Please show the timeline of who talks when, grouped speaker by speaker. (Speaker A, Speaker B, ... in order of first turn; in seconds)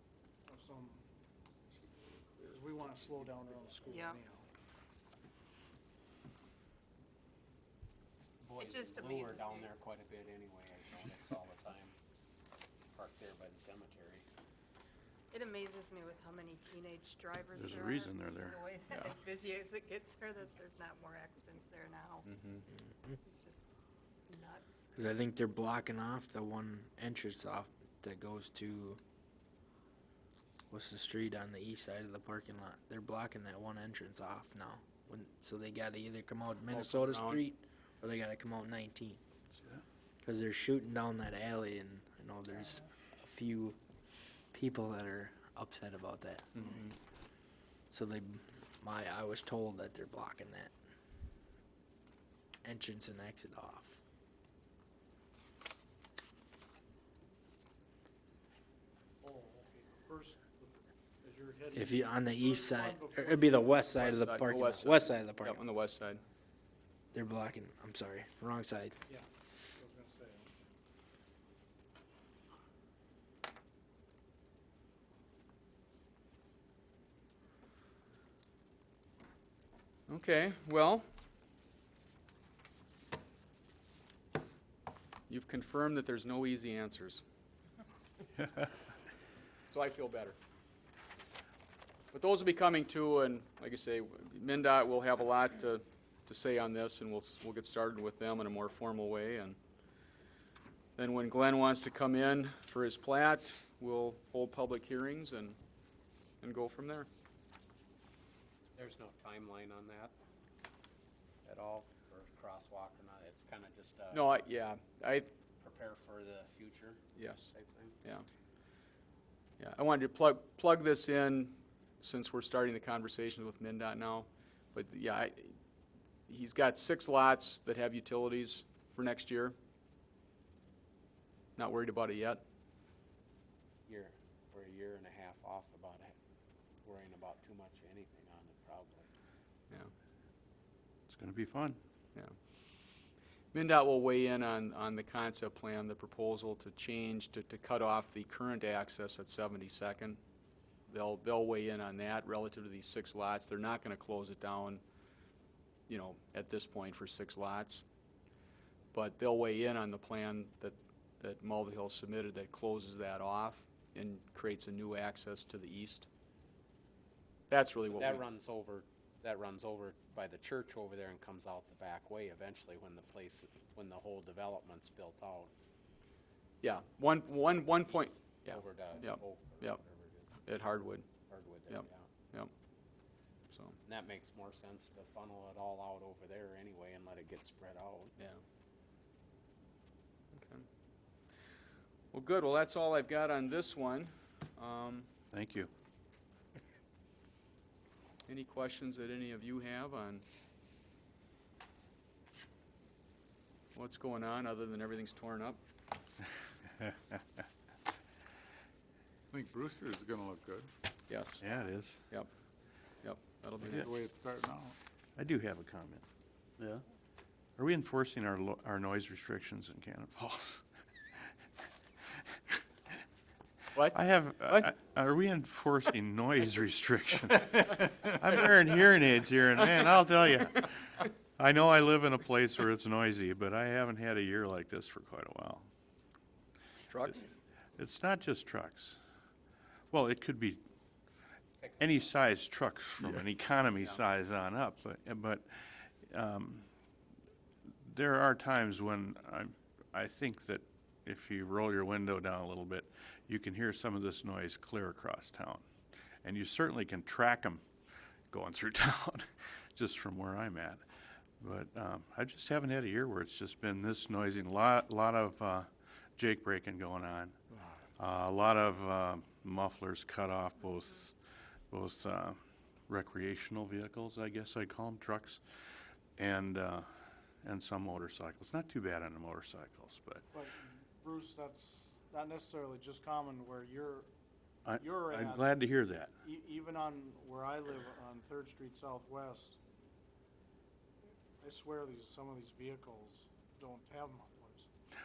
Speaker A: 0.5-1.0, 2.3-4.5, 59.2-64.1, 69.1-70.5, 280.3-284.1, 284.8-285.6, 286.2-289.6, 291.4-294.7
Speaker B: 3.9-4.2, 8.6-9.7, 15.3-22.3, 23.2-23.6, 24.3-24.9
Speaker C: 8.4-12.0, 12.9-14.3, 108.8-110.2, 111.4-114.4, 115.6-118.0, 133.9-136.2, 136.8-139.1, 167.9-175.5, 177.8-180.4, 181.3-182.1, 183.8-188.1, 241.6-242.1
Speaker D: 17.5-18.6, 88.4-88.7, 141.1-141.8, 195.3-195.7, 211.4-212.1, 213.7-213.9, 215.2-216.0, 217.6-221.3, 223.9-235.7, 237.8-239.0, 239.9-240.6, 241.8-246.7, 247.8-255.7, 256.2-257.6, 258.3-260.8, 261.4-267.4, 268.0-271.1, 271.7-275.4, 276.2-276.9, 277.4-280.2, 284.6-286.1
Speaker E: 18.9-19.2, 22.2-22.6, 36.7-37.5, 46.6-46.9, 64.0-66.2, 80.1-81.0, 85.3-87.2, 89.7-90.4, 92.1-99.6, 101.0-105.6, 106.4-107.1, 114.1-115.3, 117.2-117.5, 119.6-125.6, 126.3-129.6, 131.6-132.4, 143.5-150.2, 150.9-154.8, 155.9-157.8, 158.9-166.1, 167.5-168.3, 176.6-179.8, 180.4-181.1, 181.7-182.5, 183.5-183.8, 190.3-190.6, 192.1-195.1, 198.3-200.2, 203.7-205.6, 211.1-211.4, 213.0-213.9, 223.7-224.7, 236.8-237.3
Speaker F: 24.9-29.0, 30.7-39.2, 40.2-43.8, 44.5-46.6, 47.9-50.7, 52.6-54.0, 61.7-65.6, 67.1-69.0
Speaker G: 209.3-210.7, 213.6-214.8